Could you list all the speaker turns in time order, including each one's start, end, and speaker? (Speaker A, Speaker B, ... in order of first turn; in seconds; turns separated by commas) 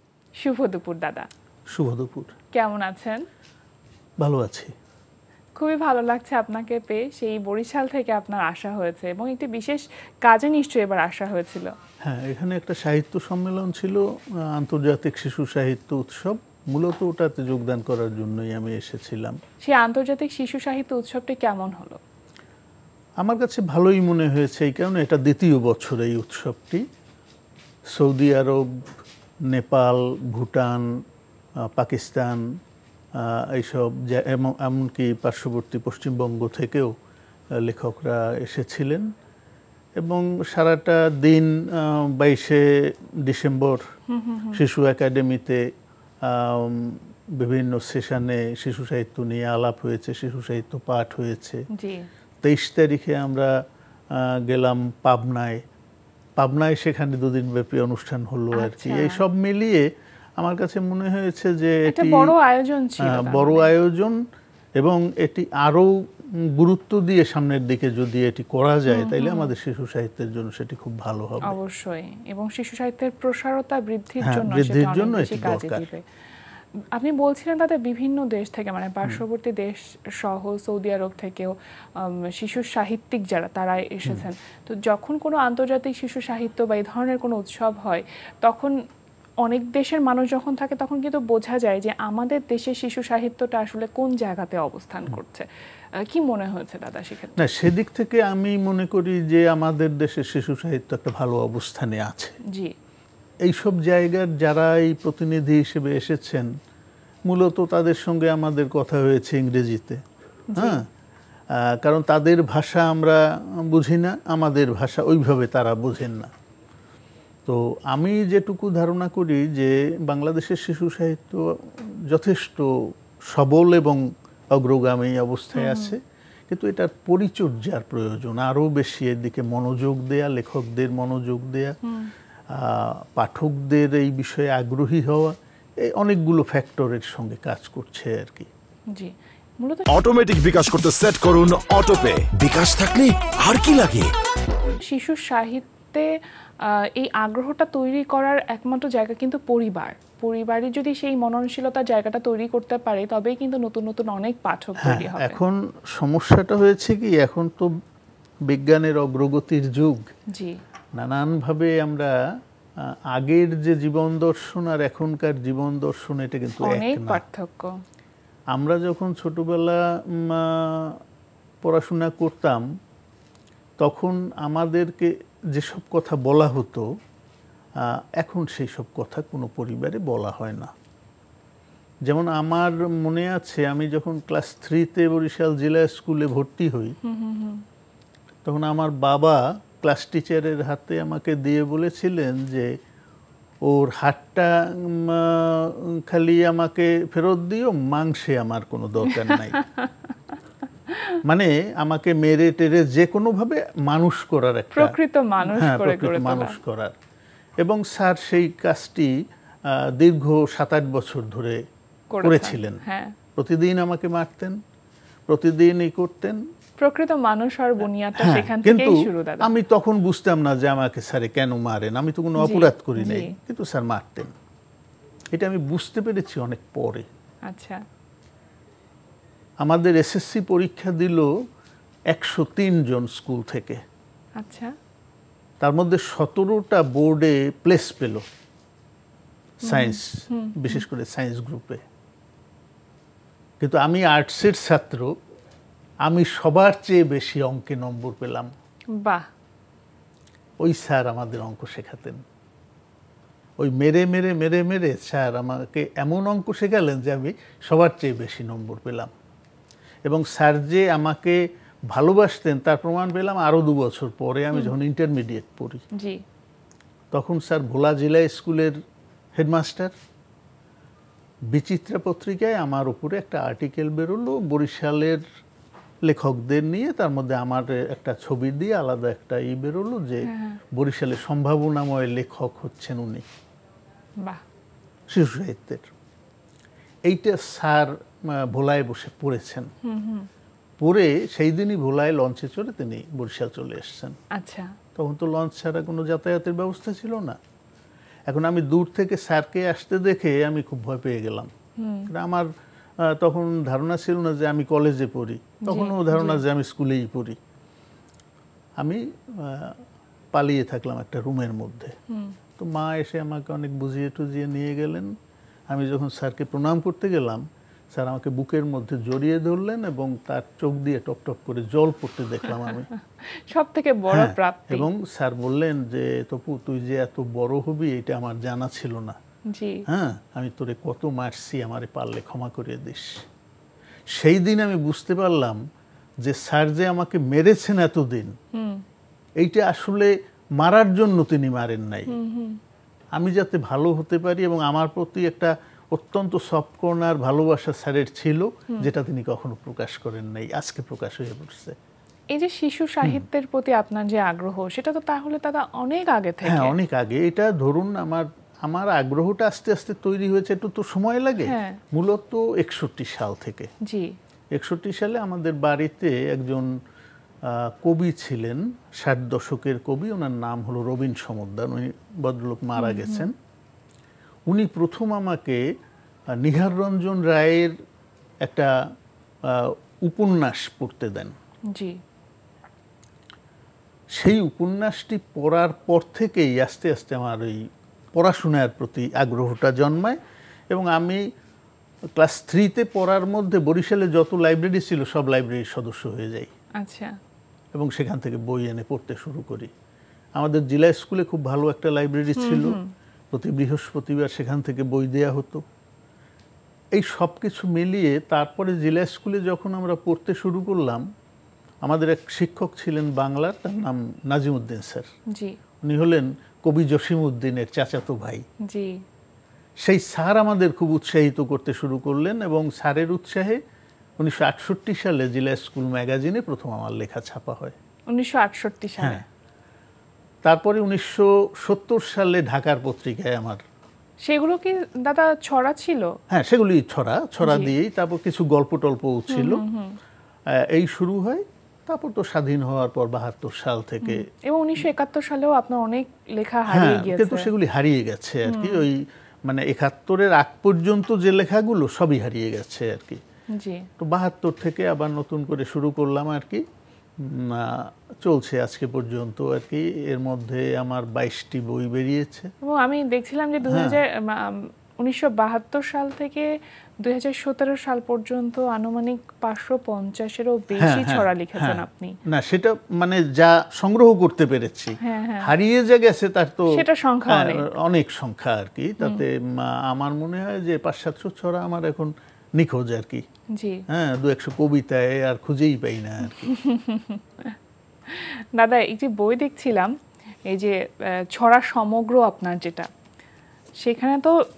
Speaker A: 0.4-1.3, Speaker B: 1.7-2.3, Speaker A: 2.5-3.2, Speaker B: 4.2-4.7, Speaker A: 5.6-11.7, Speaker B: 12.0-19.4, Speaker A: 19.6-22.0, Speaker B: 23.2-26.8, Speaker B: 27.9-28.9, Speaker B: 29.5-30.9, Speaker B: 31.7-32.4, Speaker B: 33.2-36.9, Speaker B: 37.6-39.0, Speaker B: 40.0-42.6, Speaker B: 43.2-43.8, Speaker A: 44.1-44.6, Speaker B: 44.5-45.6, Speaker B: 46.2-51.6, Speaker A: 51.7-52.0, Speaker B: 52.4-53.5, Speaker B: 54.1-55.6, Speaker B: 56.4-59.8, Speaker A: 58.5-59.2, Speaker B: 60.4-62.3, Speaker A: 61.9-63.7, Speaker B: 63.0-64.2, Speaker B: 64.8-65.9, Speaker B: 66.5-71.6, Speaker A: 68.9-69.5, Speaker A: 71.5-76.0, Speaker B: 74.2-75.9, Speaker A: 77.0-88.7, Speaker A: 89.4-95.5, Speaker A: 96.0-97.4, Speaker B: 97.4-102.4, Speaker B: 103.5-106.5, Speaker B: 107.3-110.0, Speaker A: 110.5-110.8, Speaker B: 110.5-110.8, Speaker B: 111.5-116.3, Speaker B: 117.5-122.7, Speaker B: 123.3-124.0, Speaker B: 124.5-126.0, Speaker A: 125.5-125.9, Speaker B: 126.5-131.8, Speaker A: 131.8-132.1, Speaker B: 132.5-138.5, Speaker A: 138.9-139.8, Speaker C: 139.9-144.1, Speaker A: 144.8-146.1, Speaker A: 146.7-155.4, Speaker B: 154.8-157.7, Speaker B: 158.5-160.0, Speaker B: 161.0-162.1, Speaker B: 162.8-167.2, Speaker A: 166.6-167.7, Speaker B: 168.5-171.0, Speaker B: 171.6-172.6, Speaker B: 173.8-176.8, Speaker B: 177.8-180.7, Speaker B: 182.1-186.9, Speaker A: 187.0-187.6, Speaker B: 188.4-192.7, Speaker B: 193.7-199.6, Speaker A: 199.1-200.1, Speaker B: 201.2-206.9, Speaker A: 204.7-206.6, Speaker B: 207.6-209.1, Speaker B: 209.9-211.6, Speaker A: 212.1-213.1, Speaker B: 212.2-212.8, Speaker B: 213.4-214.6, Speaker B: 215.3-216.4, Speaker A: 216.8-219.5, Speaker B: 218.2-224.3, Speaker A: 222.4-223.3, Speaker B: 225.3-227.1, Speaker A: 227.5-227.8, Speaker B: 229.6-231.3, Speaker B: 232.1-233.8, Speaker A: 234.4-234.7, Speaker B: 235.6-238.2, Speaker B: 239.6-241.8, Speaker A: 239.7-240.8, Speaker B: 243.6-245.1, Speaker B: 246.1-248.5, Speaker A: 248.9-249.2, Speaker B: 250.6-252.2, Speaker B: 253.6-259.1, Speaker B: 260.1-265.8, Speaker B: 267.1-268.8, Speaker B: 269.4-269.9, Speaker B: 271.5-275.2, Speaker B: 276.1-283.2, Speaker A: 280.3-280.6, Speaker B: 285.1-285.9, Speaker B: 287.1-289.7, Speaker A: 289.8-290.3, Speaker B: 290.8-294.2, Speaker A: 294.4-294.7, Speaker B: 294.9-297.4, Speaker B: 298.3-301.5, Speaker A: 301.8-302.1, Speaker B: 302.1-302.5, Speaker B: 303.0-307.4, Speaker A: 305.6-306.4, Speaker B: 308.8-309.8, Speaker B: 310.3-311.9, Speaker A: 312.1-312.4, Speaker B: 312.6-315.1, Speaker B: 315.7-322.9, Speaker A: 322.6-324.9, Speaker B: 324.1-329.2, Speaker A: 329.5-329.8, Speaker B: 329.9-333.2, Speaker B: 334.1-335.6, Speaker B: 336.2-338.3, Speaker A: 338.5-338.8, Speaker B: 339.4-342.1, Speaker A: 342.1-342.6, Speaker B: 343.2-351.7, Speaker A: 352.3-356.7, Speaker B: 356.4-363.7, Speaker A: 361.5-361.8, Speaker A: 363.9-364.1, Speaker B: 364.5-366.7, Speaker B: 367.4-373.3, Speaker A: 372.8-373.3, Speaker B: 374.5-375.6, Speaker B: 376.4-377.7, Speaker B: 378.4-378.7, Speaker B: 379.5-381.3, Speaker B: 384.1-387.6, Speaker B: 388.1-390.2, Speaker B: 390.7-391.2, Speaker B: 392.1-396.5, Speaker A: 396.8-397.1, Speaker B: 397.7-399.7, Speaker B: 400.4-402.8, Speaker A: 402.4-402.9, Speaker B: 403.3-405.6, Speaker B: 406.9-411.0, Speaker B: 411.8-415.1, Speaker B: 415.8-418.4, Speaker A: 418.7-419.0, Speaker B: 419.8-423.6, Speaker B: 424.2-427.7, Speaker A: 428.1-429.2, Speaker B: 430.4-433.6, Speaker A: 434.2-436.1, Speaker B: 436.3-439.6, Speaker A: 437.4-437.7, Speaker A: 439.3-440.0, Speaker B: 440.6-444.2, Speaker A: 444.0-447.5, Speaker B: 446.7-453.2, Speaker A: 448.5-448.8, Speaker A: 453.5-453.9, Speaker B: 454.0-456.6, Speaker B: 457.2-462.5, Speaker A: 462.6-466.5, Speaker B: 463.7-464.0, Speaker A: 467.0-472.1, Speaker B: 470.8-476.7, Speaker A: 475.0-475.5, Speaker A: 476.7-477.7, Speaker B: 477.3-483.2, Speaker A: 483.5-483.8, Speaker B: 483.9-486.5, Speaker A: 486.4-487.6, Speaker A: 488.1-489.9, Speaker A: 490.5-492.9, Speaker A: 493.8-494.3